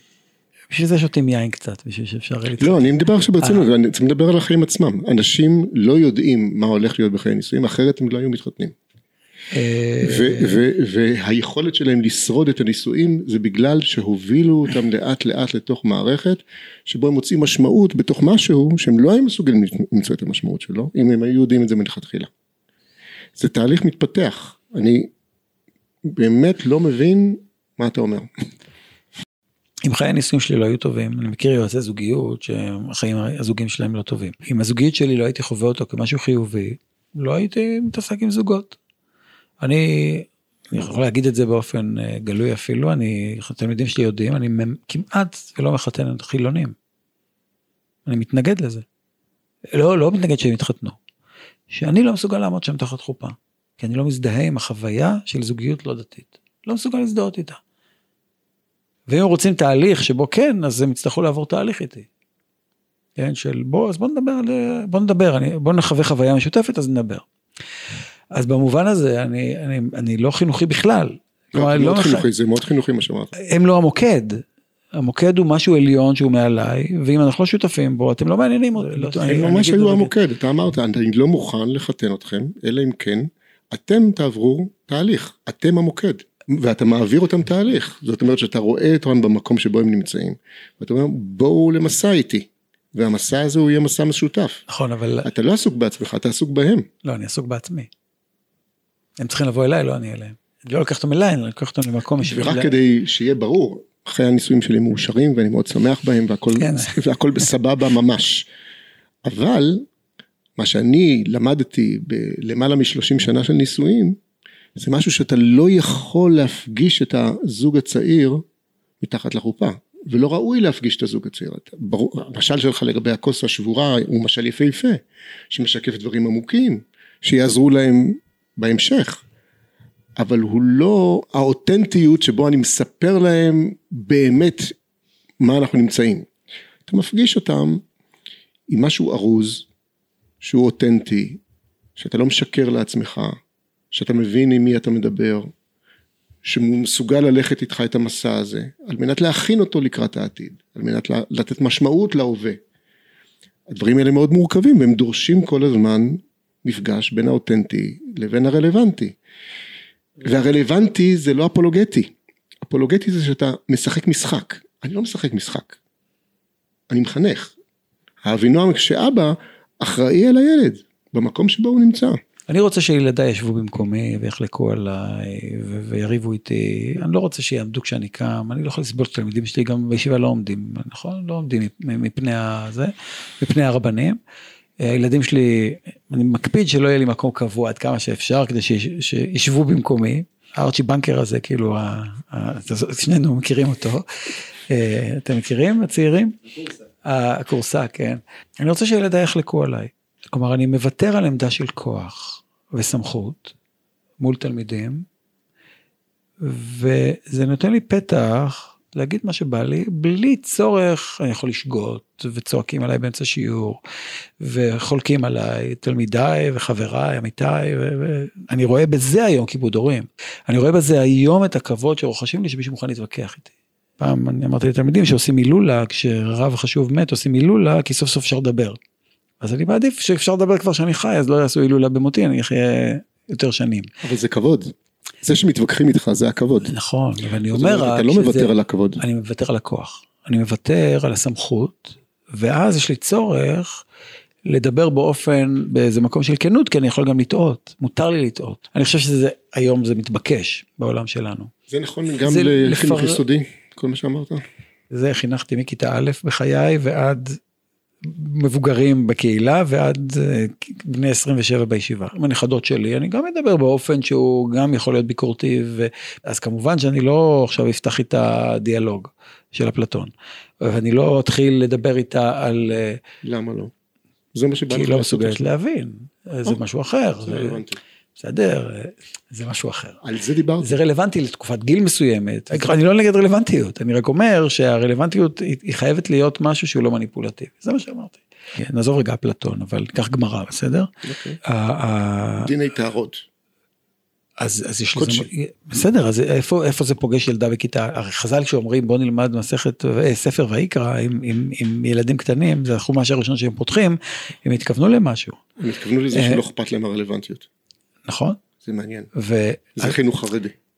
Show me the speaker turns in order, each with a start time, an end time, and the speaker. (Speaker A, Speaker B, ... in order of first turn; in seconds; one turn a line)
Speaker A: 0.7-3.7
Speaker B: 2.6-8.7
Speaker A: 9.5-10.6
Speaker B: 10.0-22.3
Speaker B: 23.4-25.1
Speaker B: 26.1-28.3
Speaker A: 29.9-38.8
Speaker A: 39.6-46.8
Speaker A: 48.1-48.9
Speaker A: 49.7-51.0
Speaker A: 51.7-57.6
Speaker A: 59.1-62.1
Speaker A: 63.2-67.2
Speaker A: 68.3-72.3
Speaker B: 71.5-73.3
Speaker A: 73.4-74.5
Speaker A: 75.0-80.1
Speaker B: 79.0-94.6
Speaker A: 94.7-95.3
Speaker B: 95.2-96.9
Speaker A: 97.0-97.9
Speaker A: 99.2-102.7
Speaker B: 102.2-108.5
Speaker A: 106.6-106.9
Speaker B: 109.2-109.9
Speaker B: 110.6-114.2
Speaker B: 114.8-118.4
Speaker B: 119.0-129.2
Speaker B: 130.2-134.7
Speaker B: 135.4-136.3
Speaker B: 136.9-137.8
Speaker B: 138.7-139.7
Speaker B: 140.4-141.4
Speaker B: 142.0-143.4
Speaker B: 143.9-145.5
Speaker B: 146.4-152.6
Speaker B: 153.7-159.2
Speaker B: 160.2-165.8
Speaker B: 166.9-167.5
Speaker B: 168.2-172.2
Speaker A: 172.5-184.2
Speaker A: 184.8-196.4
Speaker A: 197.0-203.6
Speaker A: 204.2-205.1
Speaker A: 206.4-213.8
Speaker A: 214.4-228.8
Speaker A: 229.4-233.9
Speaker B: 234.0-236.8
Speaker A: 236.6-243.8
Speaker B: 237.5-239.0
Speaker A: 244.5-251.5
Speaker B: 251.7-254.4
Speaker A: 252.2-253.2
Speaker A: 254.9-257.4
Speaker A: 258.0-273.0
Speaker B: 273.2-273.7
Speaker B: 274.3-275.4
Speaker A: 274.7-277.6
Speaker B: 277.2-277.8
Speaker A: 278.2-280.0
Speaker B: 280.0-280.7
Speaker A: 280.6-290.9
Speaker B: 291.0-291.4
Speaker A: 291.4-292.5
Speaker B: 292.4-293.3
Speaker A: 294.4-305.4
Speaker B: 295.0-295.3
Speaker B: 305.6-307.5
Speaker A: 306.1-306.4
Speaker A: 308.1-308.4
Speaker B: 308.6-309.1
Speaker A: 309.1-310.0
Speaker B: 309.8-310.6